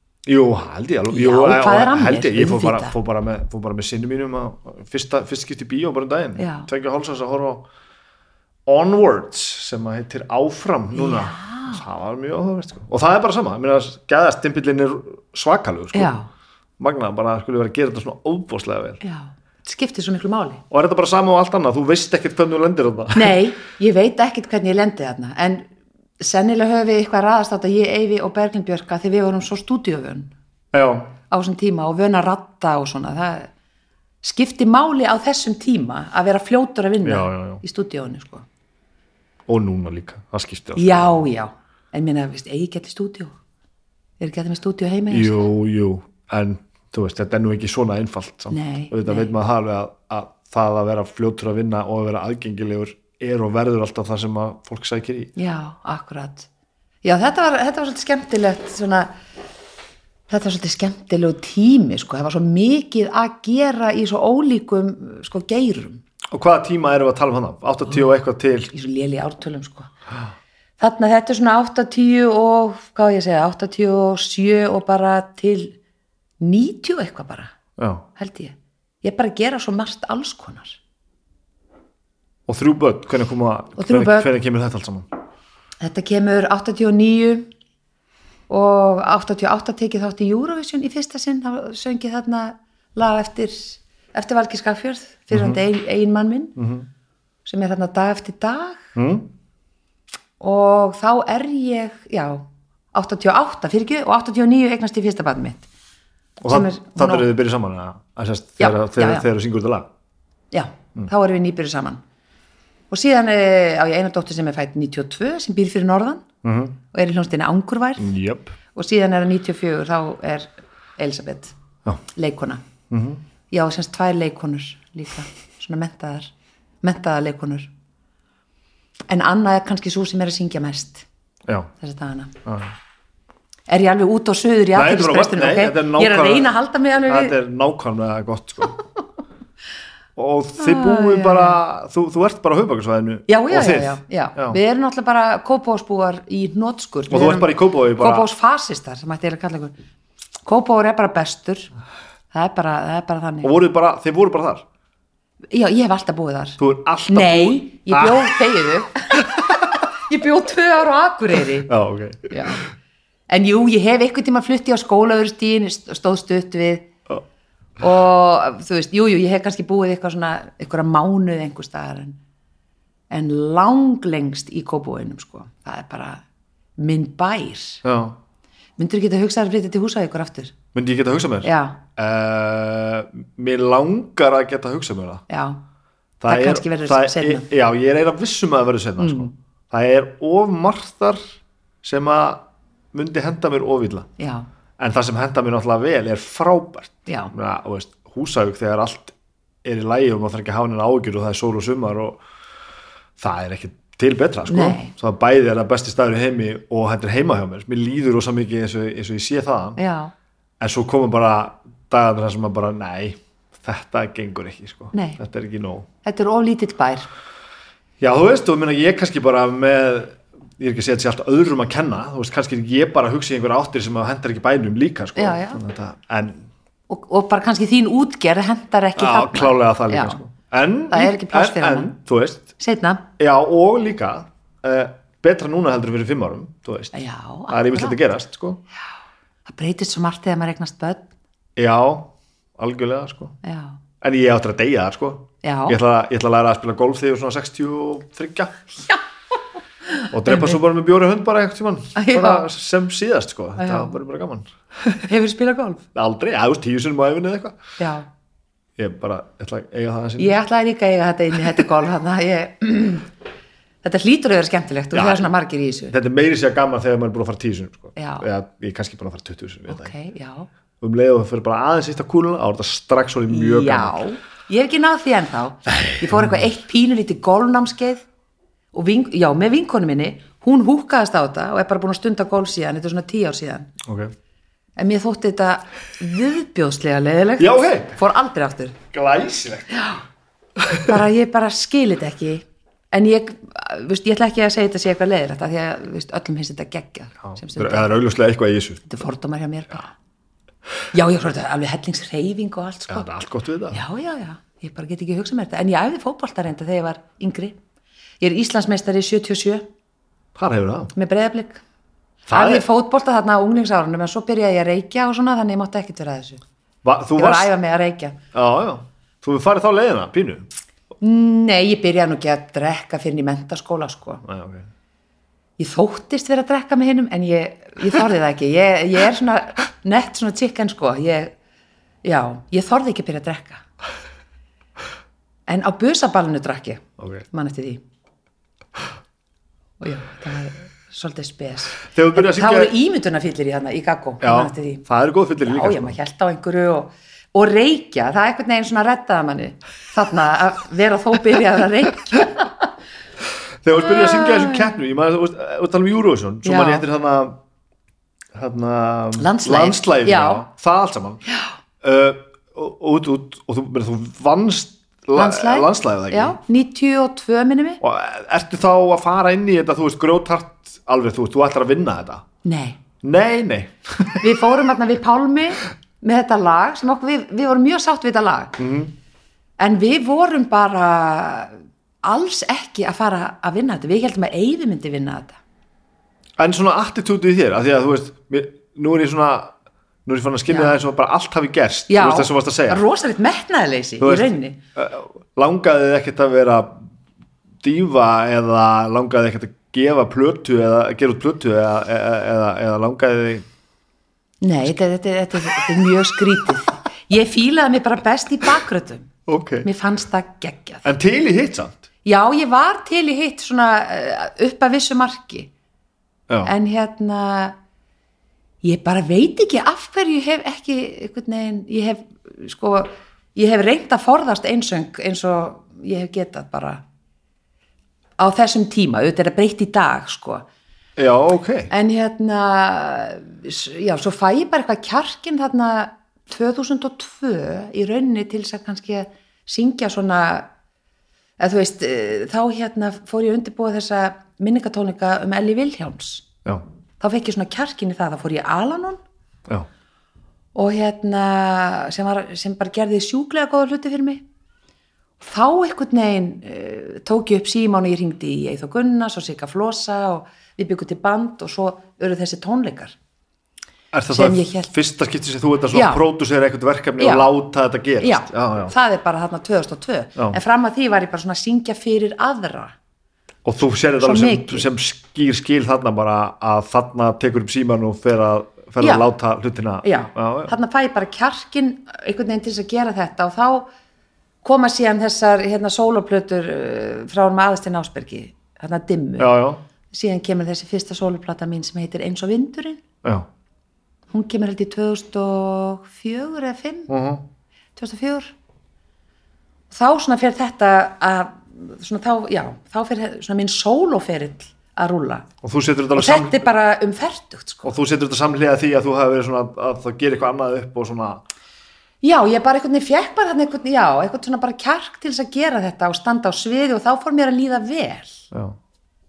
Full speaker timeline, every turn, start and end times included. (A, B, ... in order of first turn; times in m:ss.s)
0:00.2-0:07.6 A
0:01.1-0:02.9 B
0:06.4-0:06.7 B
0:08.6-0:16.1 A
0:10.9-0:11.8 B
0:15.9-0:16.3 B
0:16.8-0:19.0 A
0:19.0-0:20.6 B
0:20.7-0:23.4 A
0:23.1-0:25.7 B
0:26.2-0:30.3 B
0:30.7-0:31.1 A
0:31.3-0:33.5 B
0:34.2-0:38.4 B
0:37.0-0:37.6 A
0:39.5-0:41.2 A
0:40.8-0:43.4 B
0:44.2-0:45.4 B
0:45.1-0:55.3 A
0:48.5-0:49.3 B
0:55.4-0:56.5 B
0:57.0-0:59.1 B
1:00.3-1:06.0 B
1:06.3-1:08.7 A
1:08.7-1:09.9 B
1:10.8-1:15.8 B
1:16.4-1:17.5 B
1:17.8-1:18.0 A
1:18.2-1:20.8 B
1:22.5-1:25.1 A
1:23.8-1:24.3 B
1:25.8-1:27.5 B
1:28.5-1:36.5 B
1:35.3-1:35.6 A
1:36.6-1:36.9 A
1:37.4-1:38.8 B
1:39.0-1:39.3 A
1:40.4-1:45.7 B
1:46.4-1:49.9 A
1:46.5-1:47.3 B
1:48.6-1:49.3 B
1:50.5-1:52.0 B
1:52.9-1:56.2 B
1:56.4-1:56.8 A
1:56.9-1:58.1 B
1:58.0-1:58.6 A
1:58.7-2:01.5 B
2:02.1-2:02.6 B
2:02.9-2:03.2 A
2:03.5-2:07.7 B
2:09.1-2:11.0 B
2:11.8-2:12.4 B
2:12.4-2:12.7 A
2:13.7-2:17.3 B
2:14.7-2:16.5 A
2:17.0-2:18.8 A
2:20.2-2:24.6 A
2:20.6-2:21.6 B
2:23.3-2:29.7 B
2:27.1-2:28.2 A
2:30.4-2:31.7 B
2:32.3-2:33.5 B
2:33.4-2:34.6 A
2:35.5-2:41.7 B
2:36.6-2:38.4 A
2:39.1-2:39.7 A
2:41.6-2:42.6 A
2:42.3-2:42.6 B
2:43.3-2:46.9 B
2:47.8-2:52.2 B
2:53.1-2:56.2 B
2:56.8-2:57.8 B
2:57.8-2:58.2 A
2:58.8-3:00.5 B
3:00.7-3:05.2 A
3:01.4-3:01.8 B
3:05.3-3:05.6 B
3:06.2-3:11.2 A
3:06.3-3:07.4 B
3:09.0-3:09.3 B
3:11.8-3:14.1 A
3:14.2-3:14.5 B
3:14.8-3:22.2 A
3:17.1-3:17.3 B
3:23.2-3:29.8 A
3:24.5-3:24.9 B
3:29.8-3:30.1 B
3:30.6-3:35.9 A
3:34.9-3:35.2 B
3:36.0-3:37.1 B
3:38.0-3:46.5 A
3:45.2-3:45.6 B
3:46.9-3:50.2 B
3:49.0-3:52.5 A
3:50.9-3:52.0 B
3:52.6-3:53.0 B
3:53.2-3:58.6 A
3:56.9-3:58.0 B
3:59.4-4:01.1 B
4:01.6-4:03.4 A
4:03.4-4:03.8 B
4:04.0-4:08.8 A
4:05.4-4:05.8 B
4:09.9-4:10.6 B
4:10.1-4:14.5 A
4:12.0-4:12.5 B
4:13.6-4:13.9 B
4:14.9-4:15.8 B
4:15.9-4:17.6 A
4:17.8-4:18.1 B
4:18.8-4:20.4 A
4:20.2-4:23.1 B
4:23.8-4:25.9 B
4:24.9-4:25.3 A
4:25.9-4:29.9 A
4:28.0-4:28.2 B
4:29.7-4:30.5 B
4:30.8-4:34.0 A
4:33.3-4:38.0 B
4:35.8-4:36.5 A
4:38.7-4:43.7 B
4:43.8-4:44.1 A
4:44.8-4:48.8 B
4:47.4-4:48.0 A
4:48.9-4:49.9 A
4:49.7-4:50.0 B
4:50.6-4:50.9 A
4:50.7-4:57.9 B
4:57.3-4:58.9 A
4:58.9-4:59.9 B
5:00.9-5:03.1 B
5:02.9-5:03.8 A
5:03.7-5:07.6 B
5:08.2-5:09.6 B
5:10.4-5:10.9 A
5:10.9-5:11.6 B
5:12.3-5:12.6 A
5:12.3-5:16.4 B
5:16.8-5:17.5 A
5:17.2-5:18.2 B
5:18.3-5:20.5 A
5:21.0-5:24.2 B
5:24.2-5:24.7 A
5:25.6-5:31.3 B
5:32.0-5:33.6 B
5:35.5-5:37.8 B
5:39.8-5:44.8 B
5:41.8-5:42.7 A
5:44.2-5:46.0 A
5:45.4-5:52.5 B
5:53.6-5:57.4 A
5:53.7-5:54.7 B
5:56.4-5:56.8 B
5:58.3-6:01.2 A
5:59.2-6:00.4 B
6:01.3-6:01.5 B
6:01.8-6:06.4 A
6:05.2-6:07.8 B
6:07.8-6:12.2 A
6:12.4-6:12.8 B
6:13.0-6:14.4 A
6:14.2-6:18.6 B
6:18.6-6:18.9 A
6:19.6-6:25.4 B
6:26.4-6:29.5 A
6:30.0-6:32.8 A
6:30.5-6:30.8 B
6:31.9-6:34.6 B
6:34.0-6:36.9 A
6:37.6-6:43.5 A
6:44.4-6:49.1 B
6:45.4-6:46.0 A
6:49.3-6:49.7 A
6:49.6-6:50.9 B
6:50.8-6:51.8 A
6:52.0-6:55.5 B
6:56.4-6:57.5 B
6:58.6-7:06.8 B
7:08.2-7:10.4 B
7:11.0-7:11.7 A
7:11.7-7:20.5 B
7:21.4-7:26.3 B
7:27.0-7:29.0 B
7:30.5-7:34.2 B
7:35.2-7:42.9 B
7:43.9-7:48.7 A
7:44.1-7:44.7 B
7:45.7-7:46.0 B
7:47.0-7:47.3 B
7:48.0-7:52.7 B
7:53.4-8:00.5 A
7:54.0-7:54.7 B
7:58.8-7:59.1 B
7:59.8-8:03.7 B
8:04.4-8:09.4 B
8:09.2-8:09.6 A
8:09.9-8:12.8 B
8:14.1-8:16.9 B
8:16.9-8:17.2 A
8:17.8-8:18.3 B
8:19.7-8:25.3 B
8:25.4-8:26.5 A
8:25.9-8:27.7 B
8:27.6-8:31.2 A
8:32.0-8:38.3 B